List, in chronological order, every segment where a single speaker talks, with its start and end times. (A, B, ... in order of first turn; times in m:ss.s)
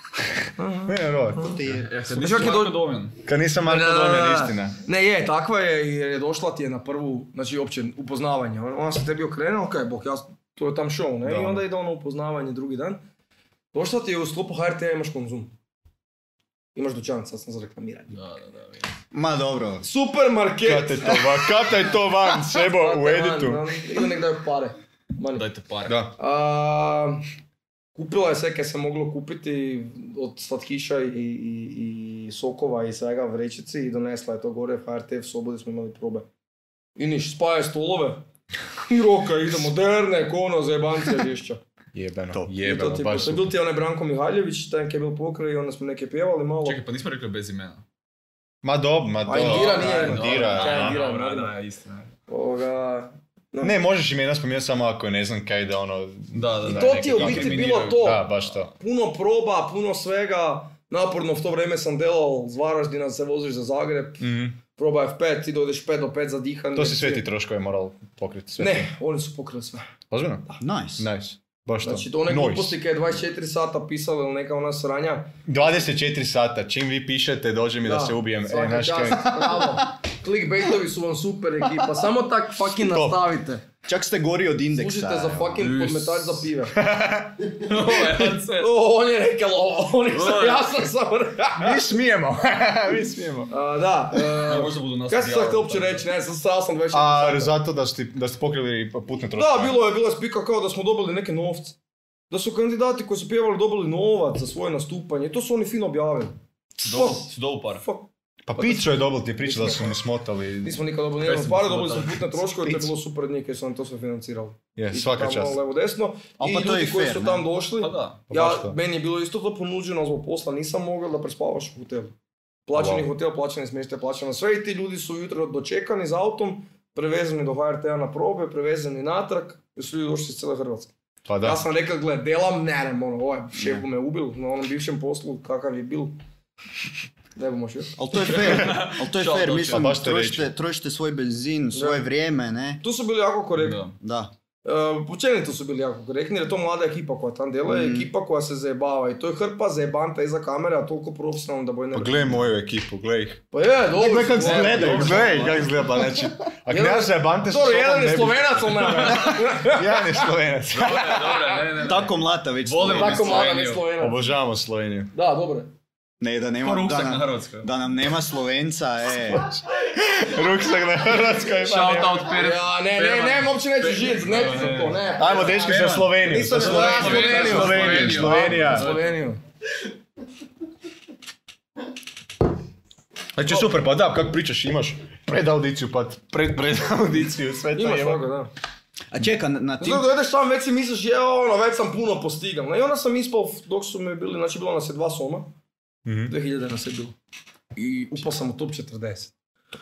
0:00.6-0:01.5 A
0:00.8-0:01.6 B
0:01.4-0:01.9 C
0:01.6-0:03.2 D
0:02.1-0:02.9 A
0:03.2-0:04.8 B
0:03.6-0:13.0 A
0:11.2-0:11.6 B
0:13.7-0:15.5 A
0:16.7-0:18.2 A
0:18.1-0:18.9 D
0:19.1-0:19.8 C
0:19.8-0:21.4 A
0:20.6-0:23.6 B
0:22.5-0:25.4 A
0:25.4-0:26.0 D
0:25.8-0:26.1 B
0:26.2-0:27.2 A
0:27.9-0:36.3 A
0:37.0-0:38.2 A
0:38.8-0:41.6 A
0:41.9-0:43.5 B
0:42.6-0:46.8 A
0:46.6-0:47.8 D
0:48.6-0:51.0 B
0:49.2-0:51.5 A
0:49.3-0:52.1 D
0:52.3-0:53.8 A
0:53.6-0:58.7 B
0:56.3-0:58.4 D
0:56.6-1:07.2 A
1:04.2-1:04.6 B
1:06.8-1:08.9 B
1:08.6-1:09.8 A
1:10.1-1:12.8 B
1:10.6-1:11.1 C
1:11.8-1:15.3 A
1:15.4-1:19.8 B
1:17.8-1:23.6 A
1:22.8-1:23.2 B
1:23.8-1:25.6 C
1:24.7-1:26.8 A
1:25.6-1:26.5 D
1:26.7-1:27.5 B
1:27.5-1:28.7 D
1:27.9-1:31.8 A
1:30.1-1:30.8 D
1:31.6-1:33.5 B
1:33.5-1:37.6 A
1:34.1-1:36.0 D
1:36.9-1:39.8 B
1:39.4-1:41.8 A
1:42.3-1:49.9 A
1:46.8-1:47.8 D
1:48.5-1:50.8 B
1:50.6-2:02.1 A
1:51.2-1:52.4 D
1:52.6-1:52.9 B
1:54.8-1:55.6 B
1:56.4-1:57.5 C
1:57.8-1:58.2 D
1:58.3-1:58.8 B
2:02.7-2:16.2 A
2:02.7-2:03.1 B
2:11.2-2:11.6 B
2:13.6-2:13.8 C
2:17.4-2:18.3 A
2:18.0-2:22.8 C
2:18.2-2:19.9 D
2:19.7-2:20.5 B
2:21.7-2:22.0 A
2:22.8-2:23.9 A
2:23.6-2:24.0 D
2:24.0-2:24.3 C
2:24.6-2:32.5 A
2:27.7-2:28.1 C
2:31.9-2:33.4 B
2:33.5-2:35.6 A
2:33.9-2:41.2 B
2:34.4-2:35.6 D
2:34.6-2:35.2 C
2:36.7-2:40.3 A
2:40.7-2:43.9 D
2:41.1-2:41.8 A
2:41.8-2:43.6 C
2:42.8-2:44.3 A
2:44.0-2:45.1 B
2:45.1-2:45.7 A
2:46.2-2:49.5 C
2:46.6-2:47.7 D
2:49.3-2:52.3 B
2:51.6-2:59.2 D
2:52.3-2:59.4 A
2:55.1-2:58.9 B
3:03.4-3:08.2 B
3:07.8-3:08.5 A
3:09.1-3:10.1 C
3:09.8-3:15.5 A
3:16.0-3:16.3 B
3:16.3-3:17.1 A
3:17.8-3:19.3 A